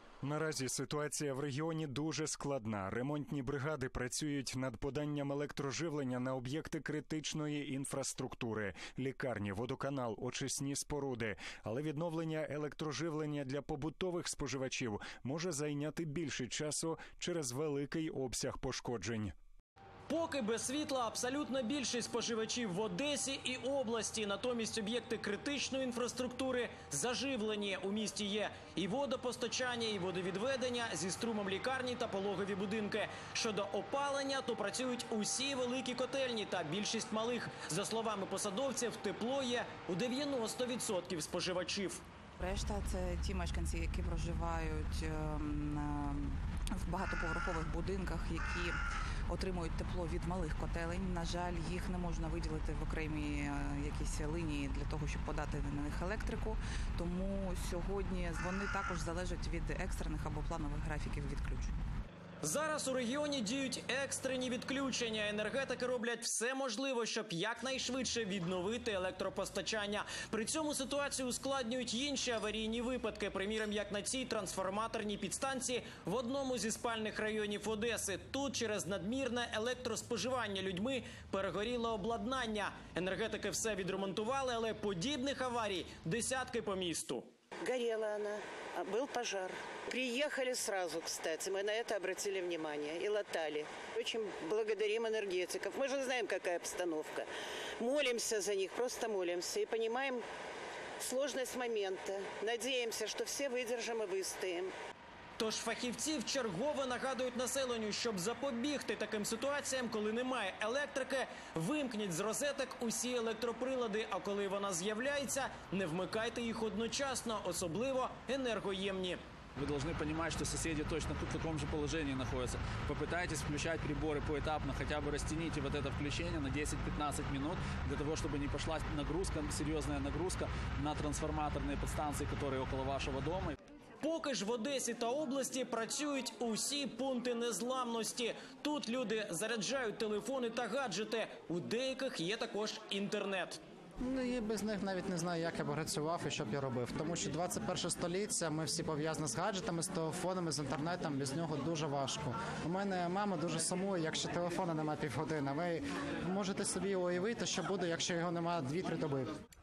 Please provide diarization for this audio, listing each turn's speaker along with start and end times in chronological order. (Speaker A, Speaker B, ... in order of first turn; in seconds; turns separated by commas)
Speaker A: 0.2-19.3, Speaker B: 20.1-42.0, Speaker C: 42.4-48.8, Speaker C: 49.3-61.7, Speaker B: 62.4-87.3, Speaker D: 87.6-97.3, Speaker D: 97.8-100.2, Speaker D: 101.0-104.7, Speaker B: 105.4-119.2, Speaker E: 119.6-133.5, Speaker B: 134.0-143.6, Speaker F: 144.0-159.3